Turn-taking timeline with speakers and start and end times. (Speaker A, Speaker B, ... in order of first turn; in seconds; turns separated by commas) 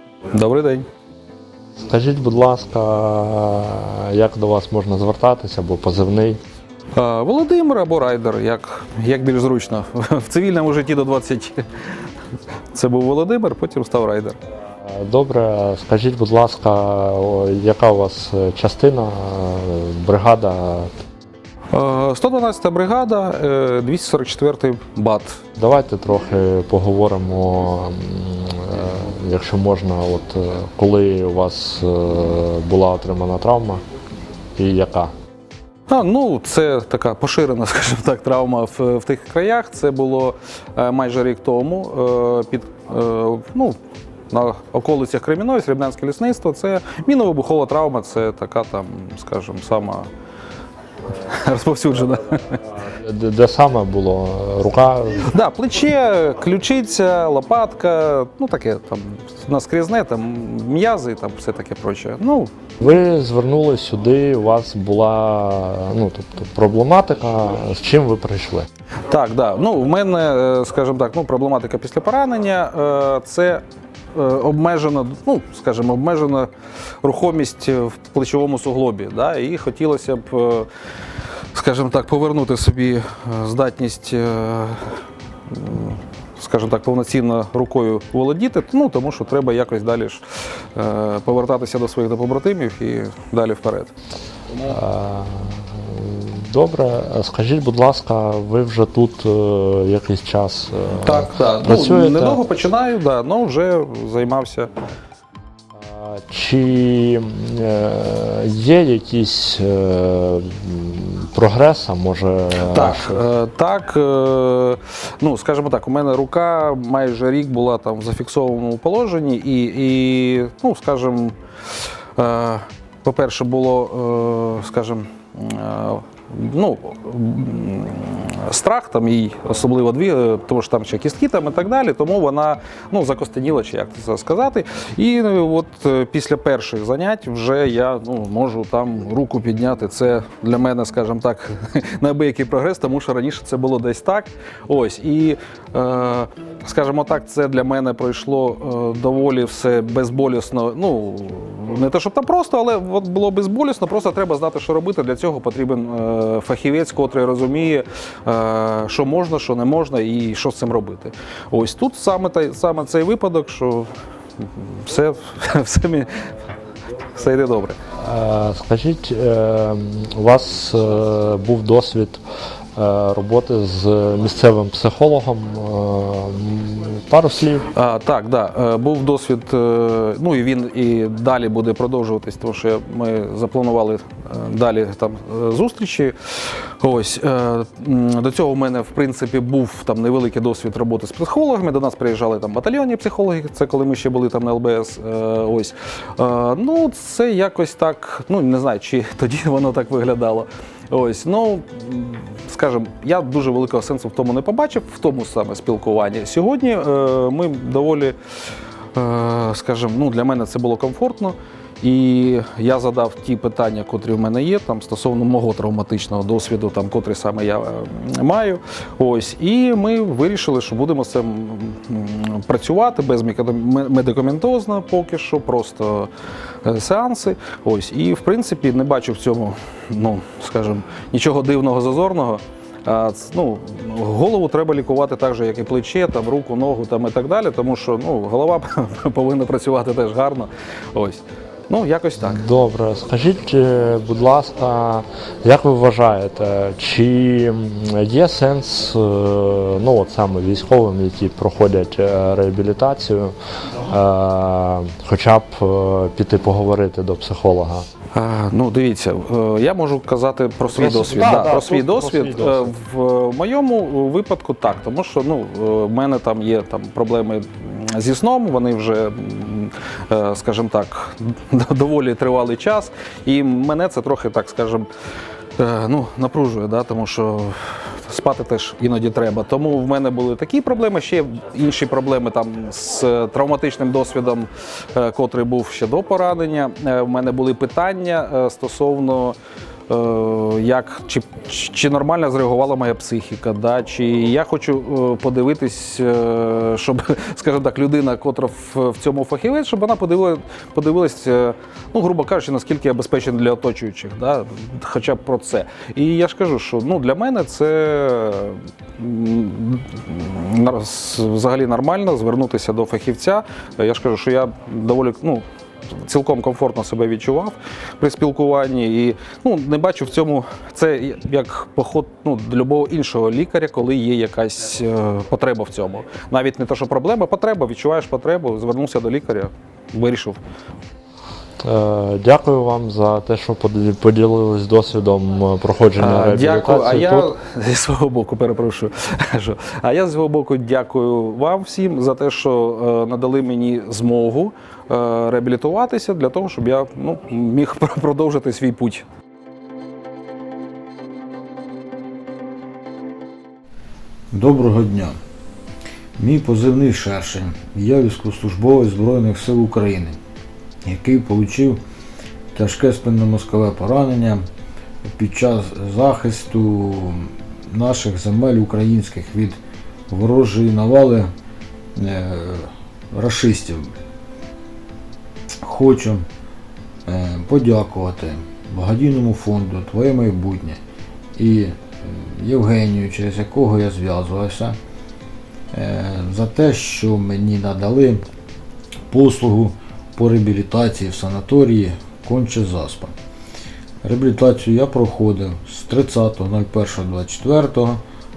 Speaker A: 0.3-0.9, Speaker B: 1.8-6.4, Speaker A: 7.0-11.6, Speaker A: 12.7-14.4, Speaker B: 14.8-20.9, Speaker A: 21.7-25.4, Speaker B: 25.6-33.8, Speaker B: 34.6-35.1, Speaker A: 35.9-43.8, Speaker A: 44.3-50.1, Speaker A: 51.2-52.6, Speaker B: 52.9-55.3, Speaker A: 55.3-62.5, Speaker B: 62.8-68.7, Speaker A: 69.1-73.6, Speaker A: 74.1-76.5, Speaker A: 77.0-80.7, Speaker A: 81.5-85.0, Speaker A: 85.5-93.9, Speaker B: 94.6-102.4, Speaker A: 101.0-104.7, Speaker B: 105.8-113.2, Speaker A: 112.6-121.3, Speaker A: 122.2-163.9, Speaker A: 164.4-166.2, Speaker A: 167.1-167.8, Speaker B: 168.0-172.2, Speaker B: 172.8-177.7, Speaker A: 177.7-186.2, Speaker A: 186.8-208.2, Speaker A: 208.9-226.1, Speaker A: 226.7-242.4, Speaker B: 242.2-257.9, Speaker A: 258.1-274.9, Speaker B: 260.7-262.7, Speaker A: 275.6-289.4, Speaker A: 289.9-315.4, Speaker A: 316.0-330.4, Speaker B: 331.6-337.3, Speaker A: 336.0-349.1, Speaker C: 354.3-355.1, Speaker C: 356.2-360.2, Speaker C: 360.9-361.8, Speaker C: 362.5-364.4, Speaker C: 365.1-369.6, Speaker C: 370.1-371.3, Speaker C: 372.0-373.9, Speaker C: 375.6-376.3, Speaker C: 377.1-380.8, Speaker C: 381.4-384.8, Speaker C: 385.7-388.2, Speaker C: 389.1-393.1, Speaker C: 394.0-398.0